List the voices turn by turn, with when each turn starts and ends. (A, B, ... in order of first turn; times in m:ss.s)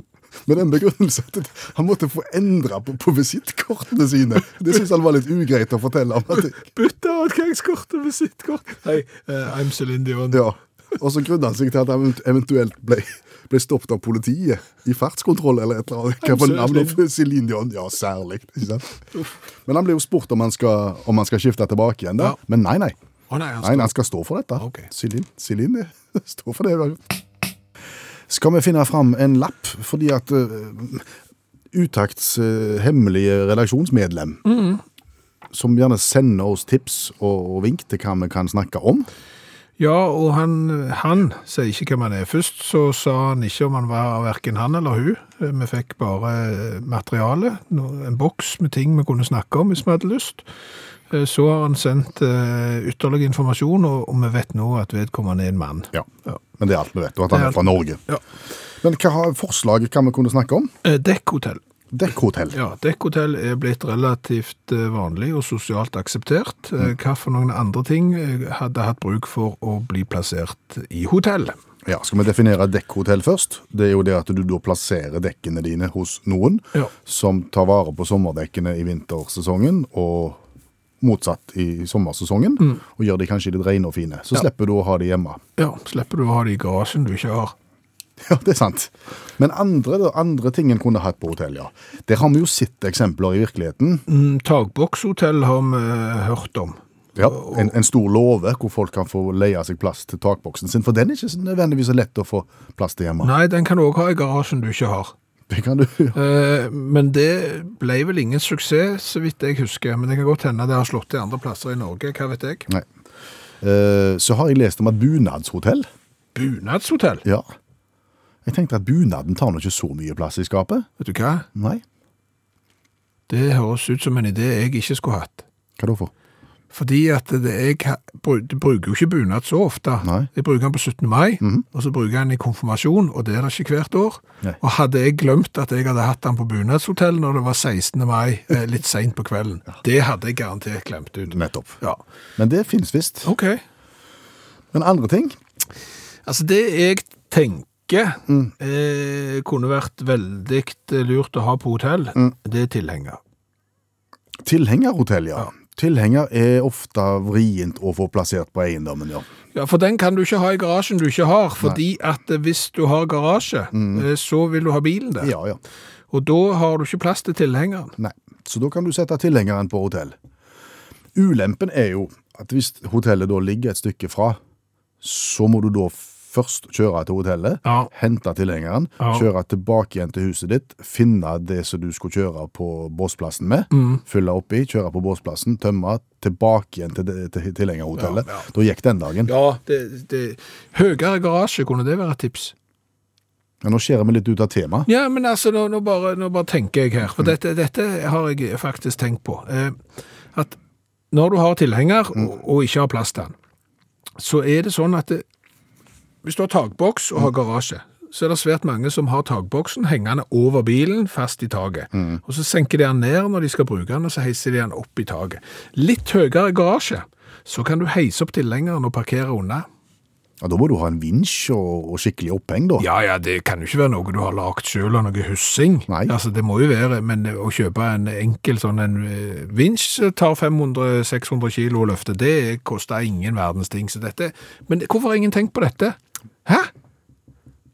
0:00.4-0:06.6 A
0:06.4-0:10.4 B
0:10.3-0:19.0 A
0:16.2-0:17.0 B
0:19.7-0:23.0 A
0:23.3-0:23.9 B
0:23.6-0:27.1 A
0:24.6-0:24.9 B
0:28.3-0:31.1 A
0:31.7-0:34.4 A
0:34.4-0:34.8 B
0:35.5-0:39.1 A
0:39.8-0:50.4 B
0:51.1-0:56.4 B
0:55.9-0:58.0 A
0:57.3-0:58.2 B
0:58.8-1:00.7 A
1:00.8-1:01.6 B
1:01.9-1:02.6 A
1:02.5-1:11.6 B
1:11.8-1:20.4 A
1:21.0-1:25.4 A
1:25.6-1:27.6 B
1:28.2-1:34.0 A
1:34.1-1:37.7 B
1:37.2-1:43.3 A
1:43.2-1:45.1 B
1:45.5-1:46.2 A
1:46.1-1:52.7 B
1:53.6-1:55.9 A
1:56.4-1:57.2 B
1:58.5-2:00.9 A
2:01.0-2:01.5 B
2:01.6-2:01.8 A
2:03.3-2:05.4 B
2:05.8-2:06.1 A
2:06.7-2:22.0 B
2:21.3-2:21.8 A
2:22.4-2:23.3 A
2:23.2-2:23.6 B
2:24.7-2:25.4 A
2:26.2-2:33.2 B
2:34.4-2:39.3 A
2:39.5-2:45.3 B
2:43.7-2:44.0 A
2:45.2-2:45.6 A
2:46.1-2:48.0 B
2:48.0-2:50.2 A
2:51.2-2:54.4 A
2:55.0-3:09.3 A
2:57.6-2:57.9 B
3:03.7-3:04.0 B
3:08.0-3:08.5 B
3:09.3-3:12.5 B
3:13.6-3:14.9 A
3:14.9-3:19.8 B
3:21.1-3:23.4 B
3:24.2-3:25.2 B
3:26.2-3:39.7 B
3:31.9-3:32.2 A
3:40.4-3:42.8 A
3:42.8-3:56.7 B
3:45.9-3:46.1 A